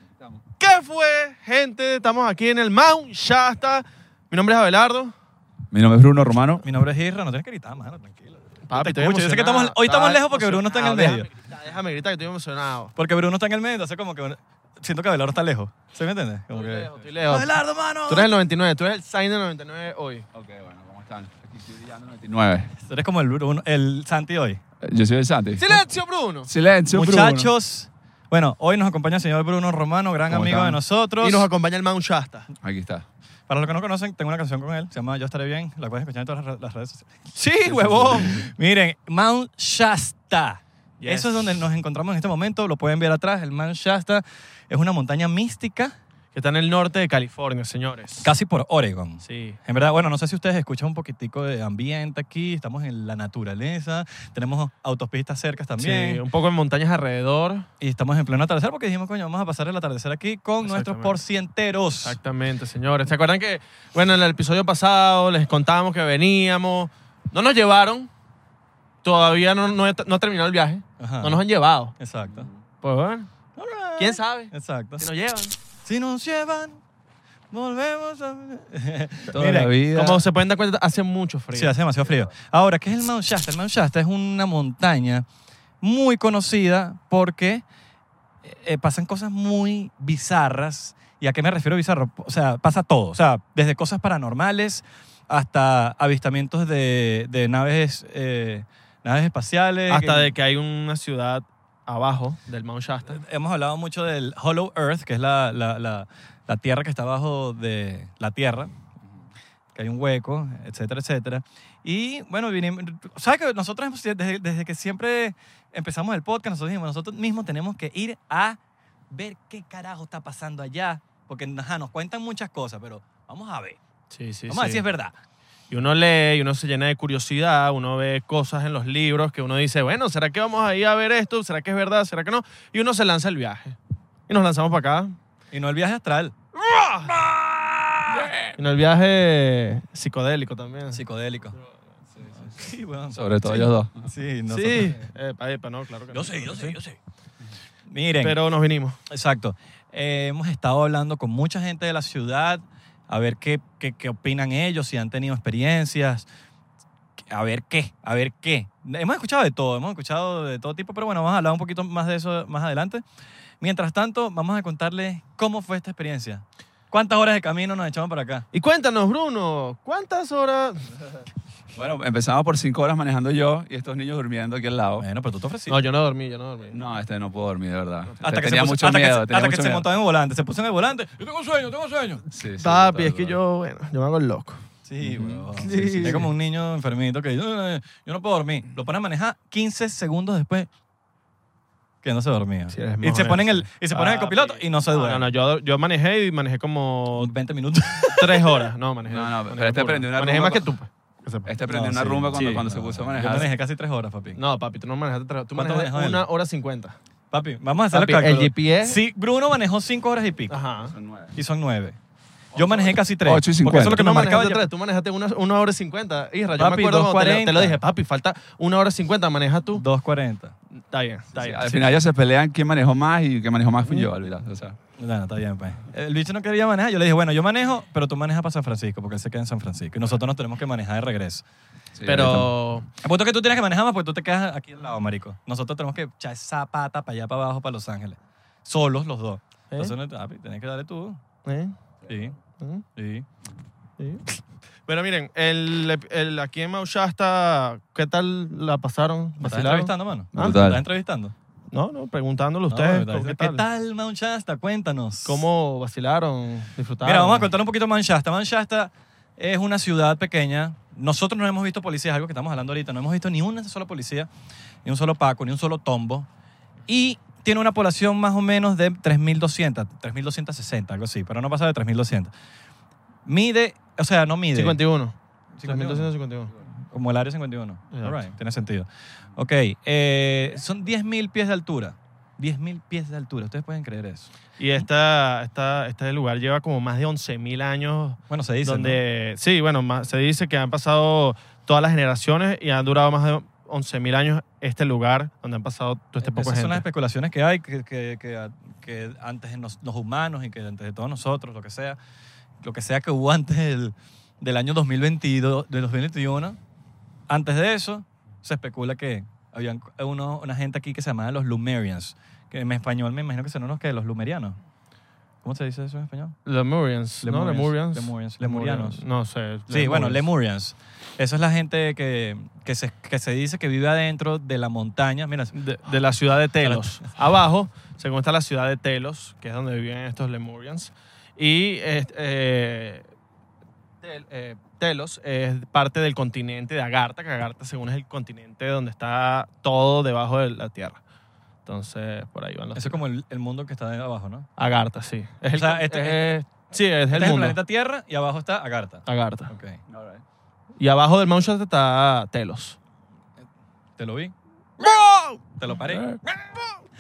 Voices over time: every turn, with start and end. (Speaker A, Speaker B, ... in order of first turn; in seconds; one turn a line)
Speaker A: 0.6-5.1
Speaker B: 5.7-6.6
Speaker C: 6.6-11.3
Speaker A: 8.7-12.9
Speaker C: 13.0-18.3
Speaker A: 16.5-20.3
Speaker B: 20.3-22.7
Speaker C: 22.9-24.6
Speaker B: 24.8-25.8
Speaker A: 25.6-26.5
Speaker B: 26.5-27.5
Speaker C: 26.9-31.5
Speaker B: 30.3-30.8
Speaker A: 31.2-32.5
Speaker B: 32.6-33.0
Speaker C: 33.5-45.9
Speaker A: 37.4-38.0
Speaker B: 37.7-38.4
Speaker A: 41.0-41.5
Speaker A: 46.3-48.3
Speaker C: 48.2-56.2
Speaker A: 49.2-49.6
Speaker A: 55.8-57.7
Speaker C: 57.8-62.2
Speaker A: 60.6-61.2
Speaker A: 62.0-68.1
Speaker A: 69.0-72.0
Speaker C: 71.0-71.4
Speaker C: 72.0-72.5
Speaker B: 72.3-72.6
Speaker A: 72.8-73.3
Speaker C: 73.6-75.1
Speaker A: 74.0-75.5
Speaker C: 75.8-76.8
Speaker C: 77.5-79.7
Speaker B: 79.3-80.2
Speaker A: 79.9-81.7
Speaker C: 81.5-85.2
Speaker C: 85.8-87.6
Speaker C: 88.5-100.3
Speaker A: 99.9-103.2
Speaker C: 103.1-108.7
Speaker C: 109.8-118.6
Speaker C: 119.1-123.8
Speaker A: 124.1-124.8
Speaker C: 124.5-125.1
Speaker A: 125.7-133.8
Speaker A: 134.3-135.2
Speaker C: 135.5-136.3
Speaker A: 136.6-137.2
Speaker C: 137.1-138.5
Speaker A: 138.2-141.0
Speaker C: 140.9-141.6
Speaker C: 142.4-145.0
Speaker B: 143.1-144.1
Speaker A: 144.5-146.8
Speaker C: 146.1-147.0
Speaker C: 147.9-148.4
Speaker A: 148.2-149.0
Speaker C: 149.1-156.3
Speaker C: 157.3-163.0
Speaker C: 163.6-168.4
Speaker A: 168.5-170.8
Speaker B: 171.8-175.1
Speaker C: 175.0-175.8
Speaker A: 175.7-176.8
Speaker B: 176.7-179.9
Speaker C: 178.2-182.2
Speaker B: 182.3-183.4
Speaker A: 182.6-184.6
Speaker C: 184.9-190.7
Speaker B: 185.0-186.2
Speaker A: 185.6-186.2
Speaker C: 192.0-195.3
Speaker A: 192.7-197.3
Speaker C: 197.2-198.5
Speaker A: 198.1-201.5
Speaker B: 199.1-200.7
Speaker B: 201.5-203.5
Speaker C: 201.7-204.4
Speaker A: 202.3-202.7
Speaker A: 204.4-206.9
Speaker C: 205.6-206.3
Speaker C: 207.3-210.6
Speaker A: 207.9-209.0
Speaker A: 210.5-210.9
Speaker B: 210.8-211.3
Speaker C: 211.3-212.0
Speaker C: 212.6-214.7
Speaker B: 212.6-214.0
Speaker A: 213.8-219.8
Speaker C: 216.6-217.8
Speaker C: 219.8-220.5
Speaker A: 220.9-221.9
Speaker B: 221.3-224.8
Speaker C: 225.0-231.4
Speaker B: 231.9-232.5
Speaker A: 232.0-232.9
Speaker C: 233.0-241.2
Speaker A: 241.4-241.8
Speaker C: 242.1-242.4
Speaker A: 242.6-242.8
Speaker C: 243.0-243.3
Speaker A: 244.0-244.3
Speaker A: 244.9-250.6
Speaker C: 249.4-251.3
Speaker B: 250.3-250.8
Speaker A: 251.7-253.7
Speaker C: 252.7-255.4
Speaker A: 255.2-257.5
Speaker C: 257.0-264.3
Speaker C: 264.9-266.3
Speaker C: 266.9-272.3
Speaker C: 273.3-274.8
Speaker A: 274.6-276.5
Speaker C: 275.6-276.1
Speaker C: 276.9-284.3
Speaker A: 277.9-278.3
Speaker A: 284.6-296.8
Speaker C: 288.3-289.0
Speaker C: 296.2-302.0
Speaker C: 302.6-306.6
Speaker C: 307.3-314.6
Speaker C: 315.4-316.4
Speaker A: 316.5-320.2
Speaker C: 317.2-319.0
Speaker C: 319.7-325.6
Speaker A: 325.6-333.1
Speaker A: 334.0-341.0
Speaker A: 341.7-343.0
Speaker C: 342.8-344.5
Speaker A: 344.6-347.6
Speaker C: 345.5-346.2
Speaker C: 347.1-349.8
Speaker A: 349.1-349.5
Speaker B: 349.9-350.2
Speaker A: 350.8-352.8
Speaker C: 354.0-354.3
Speaker A: 354.8-355.6
Speaker C: 355.6-356.2
Speaker B: 355.9-356.2